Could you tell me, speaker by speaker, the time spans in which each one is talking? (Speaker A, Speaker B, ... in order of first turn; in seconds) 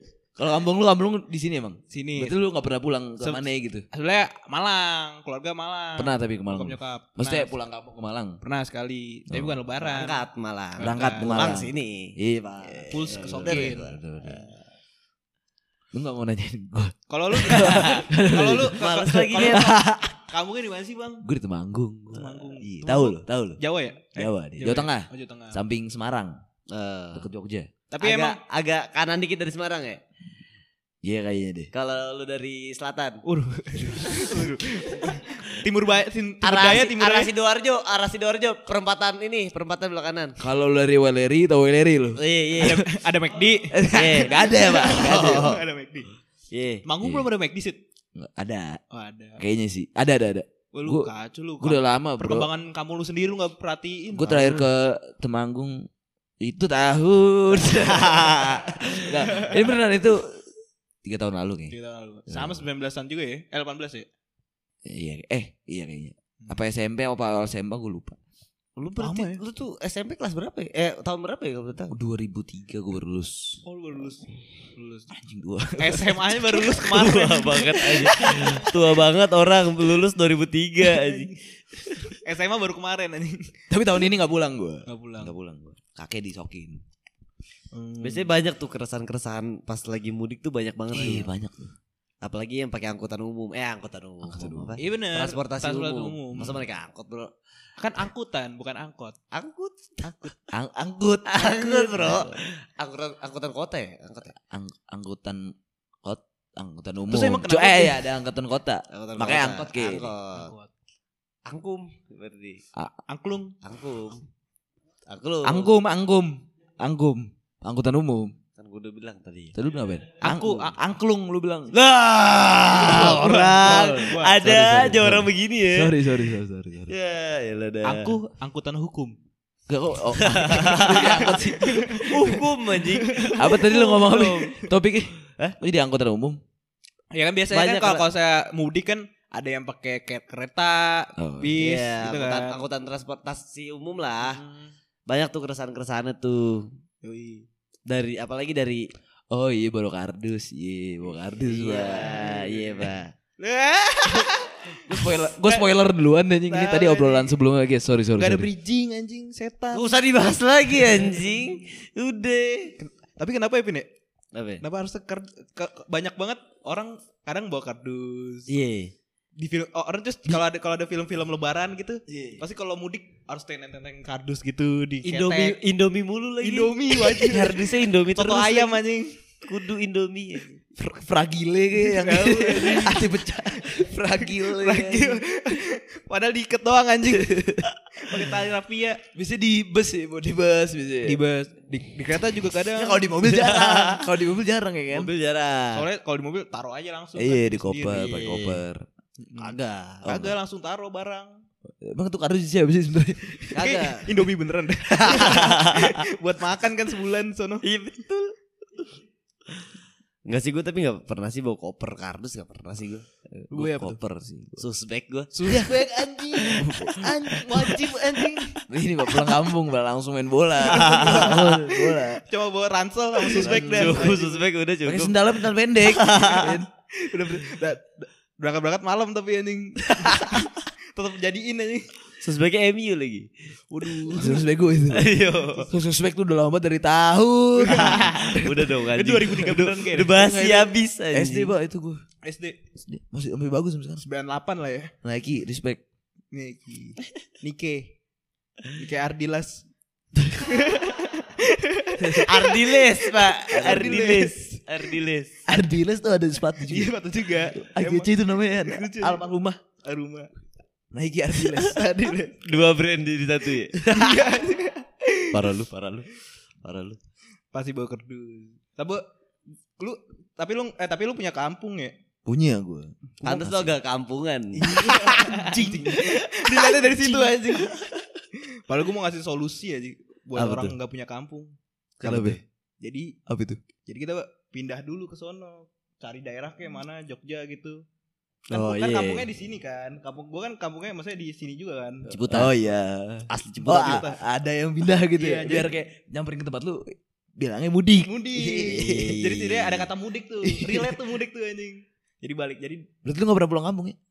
Speaker A: 0.4-3.9, 6.0-8.4, 9.3-9.6, 10.8-14.4, 15.9-18.8, 19.4-20.2, 21.2-23.6, 24.2-26.4, 27.1-27.7, 31.0-31.7, 40.4-42.9, 43.7-45.6, 47.0-47.3, 48.2-48.8, 49.4-52.5, 54.1-55.9, 56.4-60.4, 61.0-61.8, 62.3-62.7, 64.8-68.2, 71.9-73.6, 75.1-76.8, 77.8-78.7, 81.9-82.1, 83.7-86.8, 90.9-91.7, 94.2-94.8, 100.5-102.3, 104.4-110.1, 115.4-118.3, 119.5-121.8, 122.7-126.9, 129.7-132.4, 133.4-136.4, 141.2-141.6, 149.3-152.1, 154.9-158.5, 172.1-172.4, 180.8-185.2, 187.1-188.3, 189.1-191.2, 192.7-195.1, 197.2-198.9, 200.1-200.4, 201.8-204.0, 213.4-214.7, 215.5-217.7, 218.7-222.2, 223.3-224.1, 224.8-226.7, 234.1-235.2, 235.7-238.6, 241.1-242.0, 242.8-244.0, 245.0-245.8, 252.0-252.3, 253.5-254.3, 255.5-256.9, 257.5-259.6, 260.9-261.8, 263.9-264.2, 272.3-273.8, 274.7-276.2, 277.1-277.3, 282.0-282.4, 283.3-283.6, 292.1-299.9, 300.4-301.0, 303.1-304.0
Speaker B: 1.9-2.4, 3.2-7.5, 8.4-10.2, 10.8-11.5, 12.9-13.9, 17.1-21.2, 22.1-25.6, 28.0-28.4, 33.2-37.3, 42.6-46.1, 46.9-47.8, 48.9-49.4, 50.7-54.6, 59.3-59.6, 61.7-64.1, 69.0-69.4, 73.6-75.1, 75.8-78.4, 82.2-83.5, 84.9-85.3, 87.7-88.3, 94.8-96.6, 97.8-99.2, 107.1-108.1, 110.3-110.7, 113.1-113.5, 120.2-120.8, 122.8-124.4, 127.8-129.2, 131.6-132.1, 133.0-134.3, 137.1-142.6, 144.3-144.7, 147.0-147.4, 151.9-155.7, 156.5-157.3, 158.2-159.9, 162.8-163.9, 164.6-168.5, 169.4-175.6, 176.4-179.1, 181.8-189.0, 191.1-193.1, 195.8-198.1, 199.2-199.5, 200.1-201.3, 203.6-207.6, 213.5-214.0, 215.3-218.6, 220.6-224.5, 226.4-231.9, 233.7-234.4, 237.6-240.7, 242.2-242.6, 244.0-244.9, 246.3-247.9, 248.7-249.6, 250.4-254.6, 256.7-259.3, 259.8-260.3, 261.4-262.4, 263.9-265.4, 267.5-269.0, 269.8-271.9, 274.6-277.9, 278.4-283.1, 283.8-287.8, 288.5-292.1, 293.7-294.2, 295.2-295.7, 298.1-302.9
Speaker C: 9.8-14.5, 17.5-18.1, 18.6-19.7, 26.7-27.3, 27.9-30.0, 31.7-33.2, 36.4-40.4, 42.2-42.8, 43.9-44.4, 45.1-45.4, 46.5-46.8, 57.8-58.7, 68.8-72.0, 76.7-81.3, 88.0-91.3, 92.2-97.3, 99.3-100.4, 101.3-104.3, 108.9-110.5, 111.5-112.6, 113.6-114.2, 115.1-115.7, 118.6-119.6, 121.8-125.9, 126.9-128.2, 130.2-134.6, 137.5-138.1, 141.6-144.4, 145.1-146.7, 147.9-148.9, 151.4-153.1, 159.7-162.8, 164.3-164.6, 168.5-168.9, 175.0-178.8, 179.4-180.6, 193.2-194.1, 194.9-195.9, 197.9-198.6, 199.4-200.2, 203.5-204.1, 205.0-206.0, 207.6-208.3, 210.3-213.1, 214.6-218.4, 220.8-221.5, 223.3-226.6, 232.2-233.3, 234.9-235.7, 237.7-241.5, 252.2-255.4, 262.4-263.8, 265.3-267.0, 273.2-274.7, 280.4-280.7, 282.1-282.4, 288.5-289.3, 292.1-292.5, 293.3-294.1, 298.7-299.4